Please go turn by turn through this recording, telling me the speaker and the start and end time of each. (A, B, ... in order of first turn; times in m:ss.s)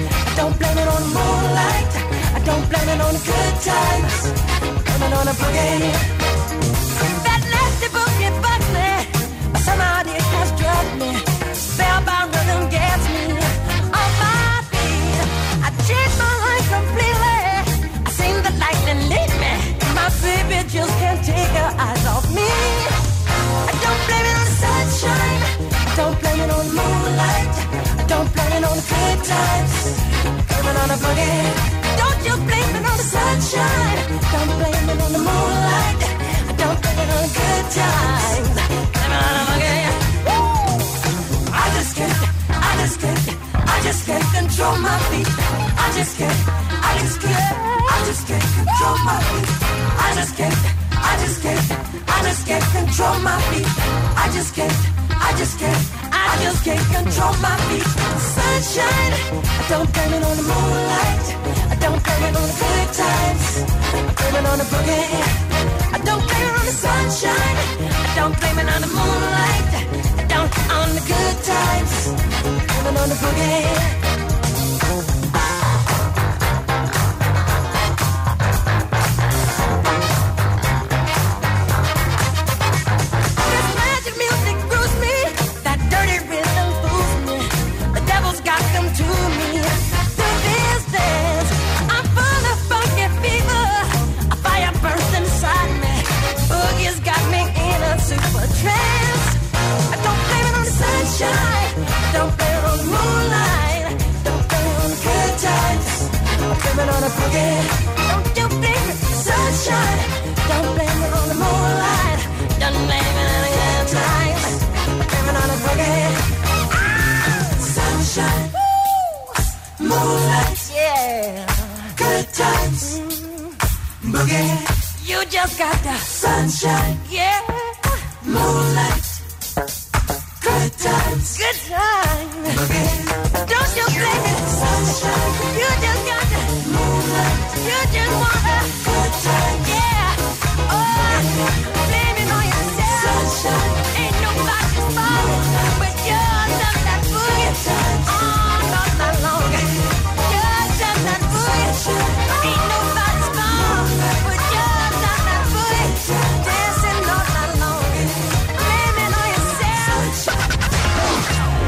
0:00.4-0:04.2 A
0:04.9-0:06.0 A
0:07.2-0:09.0 A
0:09.5-0:11.2 A
0:11.7-0:22.9 A
0:23.7-0:25.4 A
0:26.0-0:27.6 A
0:28.2-0:29.9 A
0:30.5-0:36.0 A
0:36.6-0:39.9 A
0:41.6-0:49.4 A
0:50.0-1:03.6 A
1:04.2-1:05.2 A
1:06.0-1:09.7 A
1:10.3-1:12.1 A
1:12.7-1:13.9 A
1:23.5-1:39.3 A
1:39.9-1:54.5 A
1:55.2-1:56.2 A
1:57.6-1:58.5 A
1:59.8-2:00.6 A
2:02.0-2:02.8 A
2:04.2-2:04.6 A
2:06.1-2:06.9 A
2:08.3-2:09.0 A
2:10.6-2:11.1 A
2:11.9-2:12.4 A
2:14.0-2:15.8 A
2:16.4-2:20.0 A
2:20.8-2:38.0 A
2:38.6-2:40.2 A